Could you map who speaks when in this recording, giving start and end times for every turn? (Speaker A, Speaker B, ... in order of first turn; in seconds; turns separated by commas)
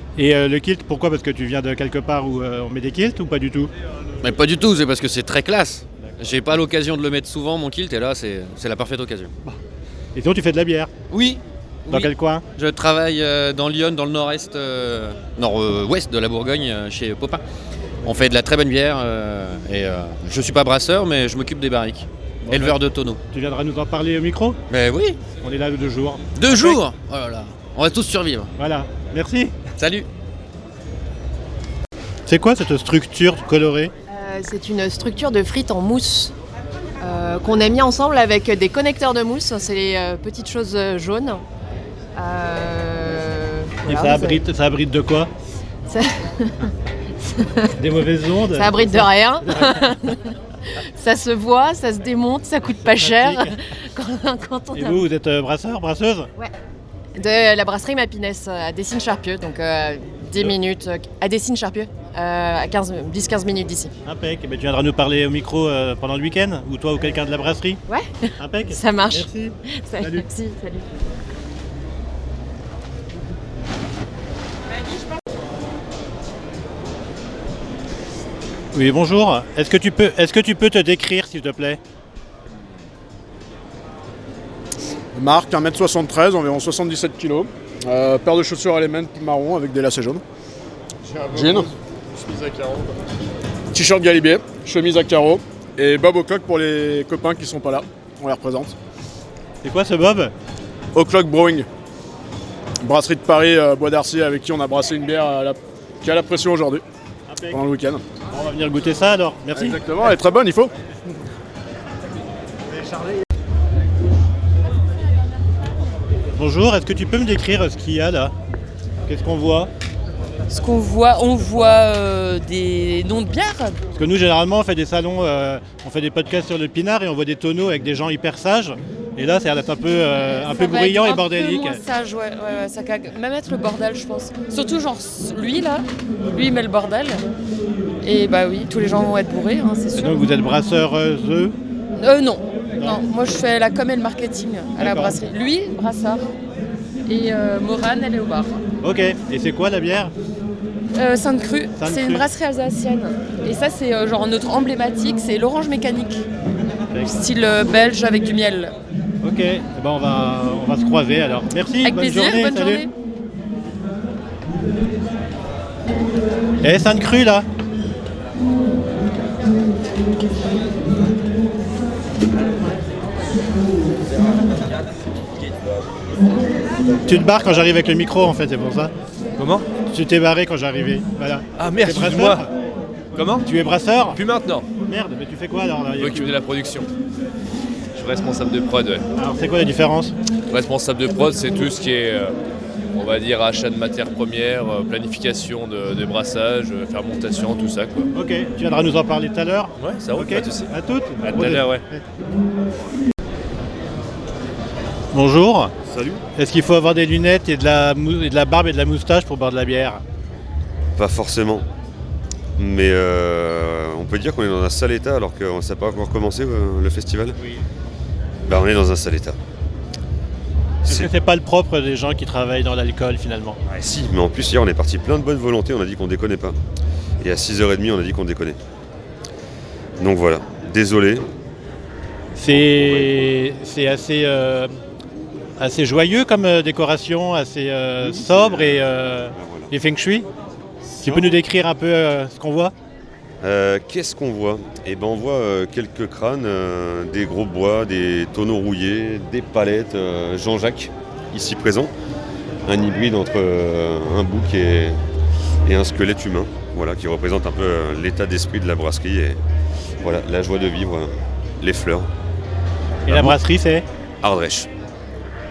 Speaker A: 0.2-3.7, Speaker B: 4.2-9.3, Speaker A: 10.2-10.9, Speaker B: 11.1-17.4, Speaker A: 11.9-12.4, Speaker B: 18.0-23.2, Speaker A: 22.5-22.8, Speaker A: 23.3-24.6, Speaker B: 24.7-25.2, Speaker A: 25.4-26.8, Speaker B: 26.4-28.5, Speaker A: 28.6-29.6, Speaker B: 29.8-30.1, Speaker A: 32.3-33.9, Speaker C: 34.1-36.3, Speaker C: 37.0-41.4, Speaker C: 42.2-44.4, Speaker A: 43.9-45.3, Speaker C: 45.9-47.8, Speaker A: 47.8-49.8, Speaker C: 48.5-55.0, Speaker A: 52.8-53.6, Speaker A: 54.8-56.3, Speaker C: 57.2-63.9, Speaker A: 64.0-67.8, Speaker C: 67.9-70.9, Speaker A: 68.4-70.3, Speaker A: 78.7-81.8, Speaker D: 85.2-90.2, Speaker D: 91.1-92.9, Speaker D: 93.7-98.8, Speaker A: 99.6-100.3, Speaker D: 101.0-101.7, Speaker D: 102.8-106.8, Speaker A: 107.3-107.6, Speaker D: 107.5-108.0, Speaker A: 108.3-109.8, Speaker D: 109.5-110.7, Speaker A: 116.3-118.3, Speaker A: 119.1-119.7, Speaker E: 120.5-123.8, Speaker A: 124.0-131.8, Speaker E: 130.3-137.2, Speaker E: 138.0-140.2, Speaker A: 139.9-141.6, Speaker E: 142.0-146.3, Speaker A: 144.8-145.2, Speaker E: 147.1-148.6, Speaker A: 148.8-150.1, Speaker E: 150.9-156.2, Speaker A: 151.8-152.3, Speaker E: 157.0-158.7, Speaker A: 159.2-162.9, Speaker E: 161.8-162.9, Speaker A: 166.6-167.5, Speaker A: 177.1-178.9, Speaker F: 179.4-179.7, Speaker A: 179.9-182.5, Speaker F: 181.6-182.5, Speaker F: 183.2-183.4, Speaker A: 183.4-184.2, Speaker F: 184.1-184.7, Speaker A: 184.8-186.3, Speaker F: 186.0-186.9, Speaker F: 187.9-189.1, Speaker A: 189.2-190.1, Speaker F: 190.5-192.4, Speaker F: 192.9-198.1, Speaker A: 198.1-202.0, Speaker F: 199.8-201.8, Speaker A: 205.1-205.7, Speaker F: 205.9-206.2, Speaker A: 206.4-210.0, Speaker G: 211.0-211.7, Speaker G: 212.6-217.4, Speaker G: 218.5-219.4, Speaker G: 220.9-221.1, Speaker A: 220.9-223.6, Speaker G: 223.7-226.6, Speaker G: 227.2-228.6, Speaker G: 230.0-231.3, Speaker A: 232.3-234.7, Speaker G: 232.5-233.3, Speaker A: 235.6-240.3, Speaker G: 238.0-239.7, Speaker G: 241.0-241.3, Speaker A: 241.0-242.7, Speaker G: 243.4-251.9, Speaker G: 252.7-255.0, Speaker G: 255.7-259.4, Speaker G: 260.0-262.1, Speaker G: 263.1-263.4, Speaker A: 263.1-263.9, Speaker G: 264.2-264.7